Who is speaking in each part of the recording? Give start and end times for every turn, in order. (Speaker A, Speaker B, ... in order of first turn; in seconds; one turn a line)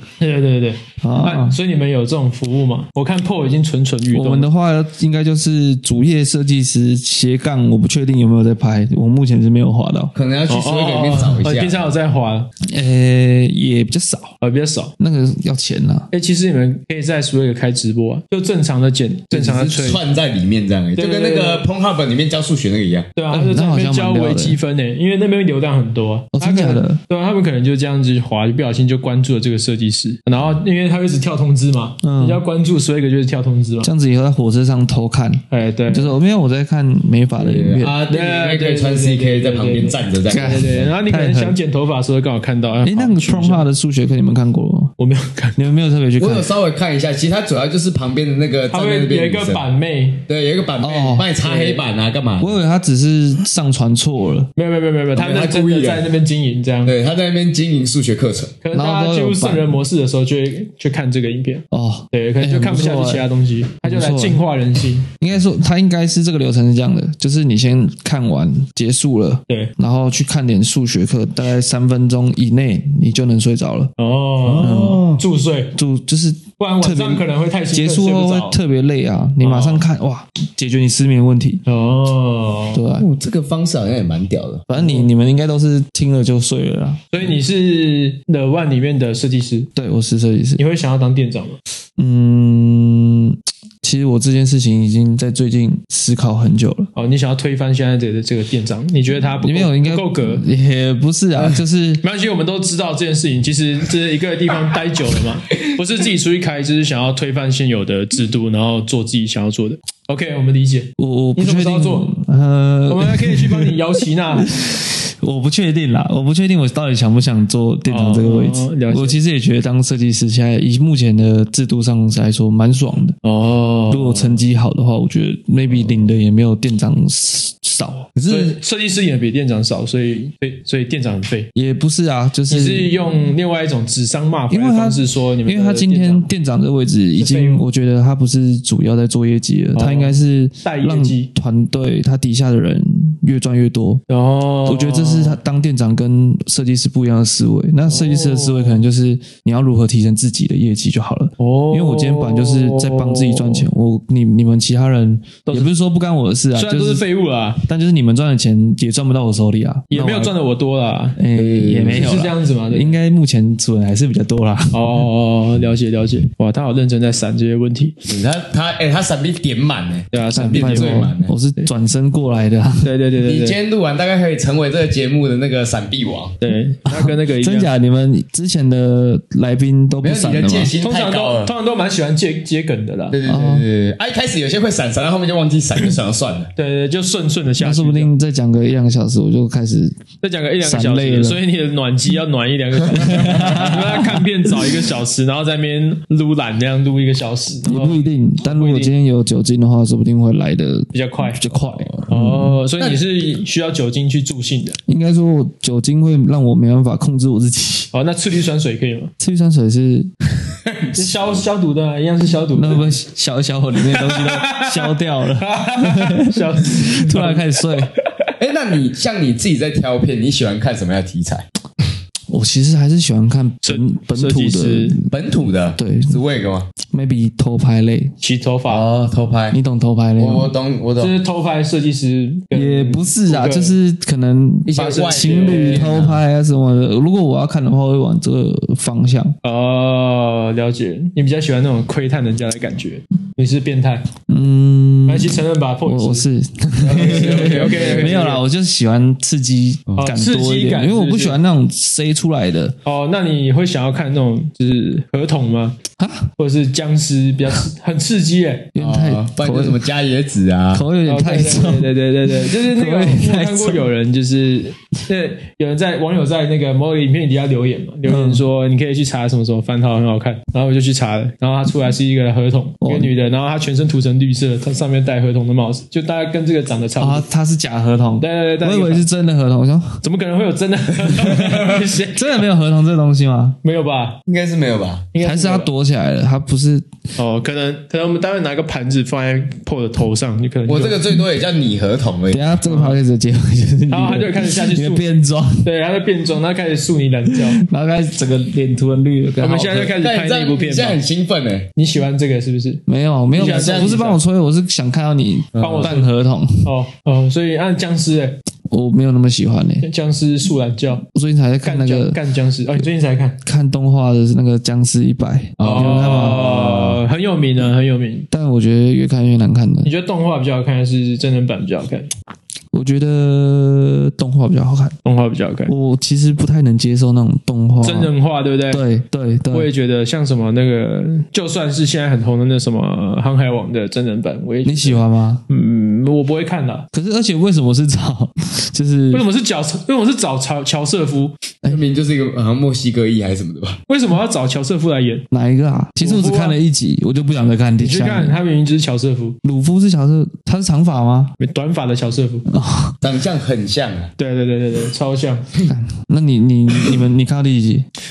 Speaker A: 0.2-4.5
Speaker B: 1.0-1.6
Speaker B: 4.1-10.1
Speaker C: 10.2-11.8
Speaker A: 10.5-12.5
Speaker B: 12.7-14.4
Speaker A: 14.4-14.9
Speaker B: 15.0-16.1
Speaker A: 16.1-20.0
Speaker C: 19.3-23.1
Speaker A: 21.0-21.6
Speaker A: 23.2-33.9
Speaker B: 23.3-24.6
Speaker B: 26.3-27.0
Speaker B: 32.0-32.4
Speaker B: 33.8-38.0
Speaker A: 35.5-36.1
Speaker C: 37.4-40.9
Speaker A: 38.1-43.7
Speaker B: 40.3-41.6
Speaker B: 42.8-44.9
Speaker A: 45.0-45.6
Speaker B: 45.6-46.5
Speaker C: 46.2-49.6
Speaker A: 48.7-50.2
Speaker C: 50.3-52.6
Speaker B: 50.8-51.3
Speaker A: 51.4-51.8
Speaker B: 52.4-54.5
Speaker A: 54.6-56.9
Speaker C: 55.1-56.1
Speaker C: 56.9-58.6
Speaker A: 58.6-65.1
Speaker B: 58.7-59.7
Speaker B: 61.7-63.3
Speaker B: 63.8-64.4
Speaker B: 65.2-73.9
Speaker A: 74.0-75.8
Speaker C: 74.5-75.2
Speaker B: 74.6-75.0
Speaker B: 75.8-81.6
Speaker A: 76.6-78.6
Speaker A: 79.4-79.8
Speaker A: 81.7-82.8
Speaker B: 82.7-83.1
Speaker C: 83.0-84.7
Speaker B: 84.7-87.2
Speaker A: 84.7-85.1
Speaker A: 87.1-89.7
Speaker B: 89.8-90.6
Speaker A: 90.6-91.6
Speaker B: 92.0-96.9
Speaker A: 97.0-100.5
Speaker B: 99.4-102.0
Speaker A: 102.0-112.1
Speaker B: 111.0-123.2
Speaker A: 112.9-114.5
Speaker A: 117.9-119.2
Speaker A: 123.2-124.4
Speaker B: 123.9-128.1
Speaker C: 128.2-128.6
Speaker A: 128.3-131.5
Speaker B: 131.6-133.3
Speaker A: 132.5-136.3
Speaker B: 134.5-144.0
Speaker A: 137.2-137.7
Speaker A: 139.7-141.3
Speaker A: 144.1-145.4
Speaker B: 144.7-157.1
Speaker A: 147.9-148.8
Speaker A: 151.4-153.7
Speaker A: 155.5-155.7
Speaker A: 156.6-157.6
Speaker B: 157.7-160.3
Speaker A: 159.9-161.2
Speaker B: 161.2-165.0
Speaker C: 161.3-162.1
Speaker A: 161.9-162.9
Speaker A: 164.7-168.0
Speaker C: 168.1-171.3
Speaker A: 170.1-171.7
Speaker B: 170.3-172.9
Speaker A: 172.8-173.6
Speaker C: 173.2-176.4
Speaker A: 176.4-177.7
Speaker B: 176.9-180.7
Speaker C: 180.0-181.5
Speaker A: 180.8-183.2
Speaker C: 183.1-186.5
Speaker B: 183.2-183.7
Speaker A: 186.6-188.1
Speaker B: 187.6-190.0
Speaker A: 190.2-198.9
Speaker B: 190.6-191.4
Speaker B: 192.9-194.3
Speaker B: 197.7-202.6
Speaker A: 200.9-201.5
Speaker A: 202.1-204.8
Speaker B: 204.9-207.9
Speaker A: 207.9-209.1
Speaker B: 209.2-210.1
Speaker A: 210.9-212.9
Speaker B: 212.5-217.9
Speaker A: 213.8-217.7
Speaker C: 218.4-221.5
Speaker B: 222.3-225.1
Speaker A: 223.6-225.0
Speaker C: 225.1-226.7
Speaker B: 225.8-226.2
Speaker B: 226.9-228.1
Speaker A: 228.2-228.8
Speaker C: 228.7-229.6
Speaker B: 229.5-230.5
Speaker C: 230.2-231.2
Speaker A: 231.0-233.8
Speaker B: 232.5-239.3
Speaker C: 234.7-236.2
Speaker A: 234.7-236.0
Speaker A: 239.4-244.1
Speaker B: 244.3-252.8
Speaker A: 245.1-246.3
Speaker C: 246.8-248.2
Speaker A: 246.9-248.4
Speaker A: 250.0-251.4
Speaker A: 252.8-255.8
Speaker B: 256.0-256.3
Speaker A: 256.4-258.7
Speaker B: 258.7-259.8
Speaker C: 258.8-260.9
Speaker B: 260.7-263.9
Speaker A: 261.1-277.2
Speaker B: 268.1-268.4
Speaker B: 272.8-273.1
Speaker B: 277.0-280.0
Speaker A: 278.2-279.1
Speaker A: 280.0-282.4
Speaker B: 281.2-283.6
Speaker A: 283.6-284.2
Speaker C: 284.3-285.1
Speaker A: 285.1-285.7
Speaker B: 285.2-286.9
Speaker A: 287.2-291.0
Speaker C: 290.7-292.5
Speaker B: 292.3-295.7
Speaker A: 292.6-293.0
Speaker A: 293.9-295.1
Speaker A: 295.6-297.6
Speaker B: 297.6-299.9
Speaker A: 299.4-301.0
Speaker C: 299.7-301.7
Speaker A: 301.8-304.2
Speaker B: 302.9-306.7
Speaker C: 303.4-304.0
Speaker C: 305.6-306.0
Speaker A: 305.6-306.1
Speaker A: 306.6-308.4
Speaker B: 308.7-309.9
Speaker A: 309.8-311.1
Speaker B: 311.1-312.2
Speaker A: 311.6-313.4
Speaker B: 313.4-316.5
Speaker C: 315.6-317.0
Speaker A: 315.6-318.3
Speaker B: 318.3-319.9
Speaker A: 319.8-322.1
Speaker B: 322.7-325.0
Speaker A: 325.1-325.7
Speaker B: 325.7-328.1
Speaker A: 327.8-328.8
Speaker B: 328.7-329.7
Speaker A: 329.5-336.9
Speaker B: 334.6-335.4
Speaker B: 336.9-339.2
Speaker A: 339.1-341.4
Speaker C: 341.7-343.8
Speaker A: 343.9-345.3
Speaker B: 345.3-348.4
Speaker A: 346.0-346.6
Speaker A: 347.8-349.4
Speaker B: 349.4-351.3
Speaker A: 351.4-352.5
Speaker B: 352.5-353.0
Speaker C: 353.0-354.1
Speaker A: 354.2-355.5
Speaker B: 355.7-357.9